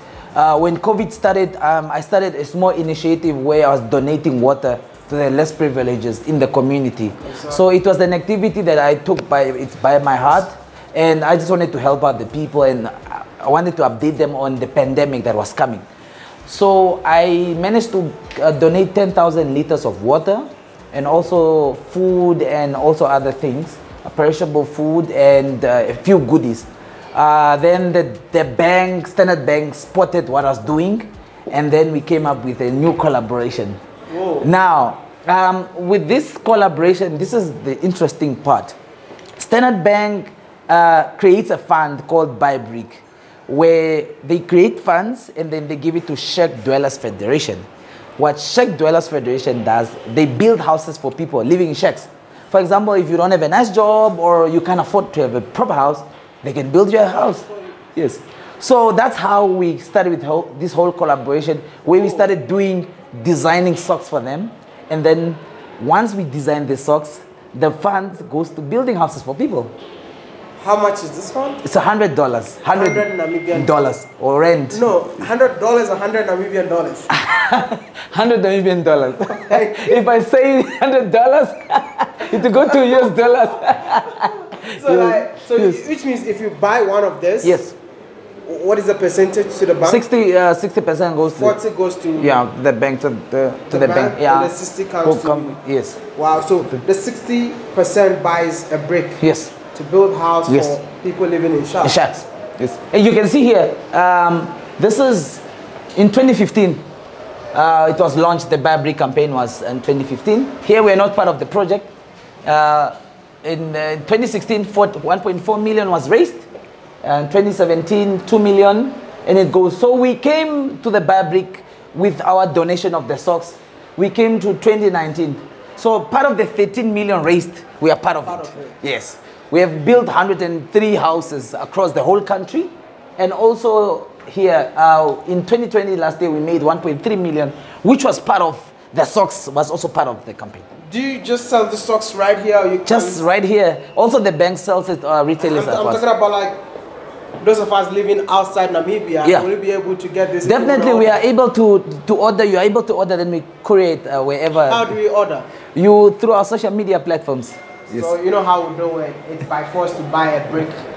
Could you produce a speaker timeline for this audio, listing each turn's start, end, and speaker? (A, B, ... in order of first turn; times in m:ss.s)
0:00.3-0:15.8 A
0:07.2-0:07.6 B
0:16.5-0:33.8 A
0:34.1-0:34.5 B
0:34.4-0:38.8 A
0:39.4-0:47.7 A
0:48.2-1:09.7 A
0:57.2-0:57.7 B
1:02.0-1:02.2 B
1:10.6-1:11.6 B
1:11.6-1:14.8 A
1:12.7-1:13.8 B
1:14.7-1:17.1 B
1:17.1-1:25.8 A
1:19.4-1:20.0 B
1:22.6-1:23.0 B
1:24.6-1:27.6 B
1:27.4-1:27.7 A
1:28.4-1:30.0 B
1:29.8-1:31.6 A
1:31.4-1:32.4 B
1:32.2-1:34.5 A
1:33.7-1:35.6 B
1:35.0-1:36.1 A
1:36.1-1:39.2 B
1:39.2-1:39.5 A
1:39.7-1:42.0 B
1:40.5-1:40.8 A
1:41.8-1:45.4 A
1:46.0-1:46.8 A
1:47.5-1:51.9 A
1:52.4-1:56.4 A
1:57.0-2:20.6 A
2:08.2-2:08.7 B
2:20.9-2:23.2 B
2:22.8-2:26.0 A
2:25.4-2:26.6 B
2:27.4-2:31.2 B
2:29.2-2:29.5 A
2:30.4-2:34.9 A
2:34.6-2:35.4 B
2:35.7-2:38.1 A
2:37.9-2:40.8 B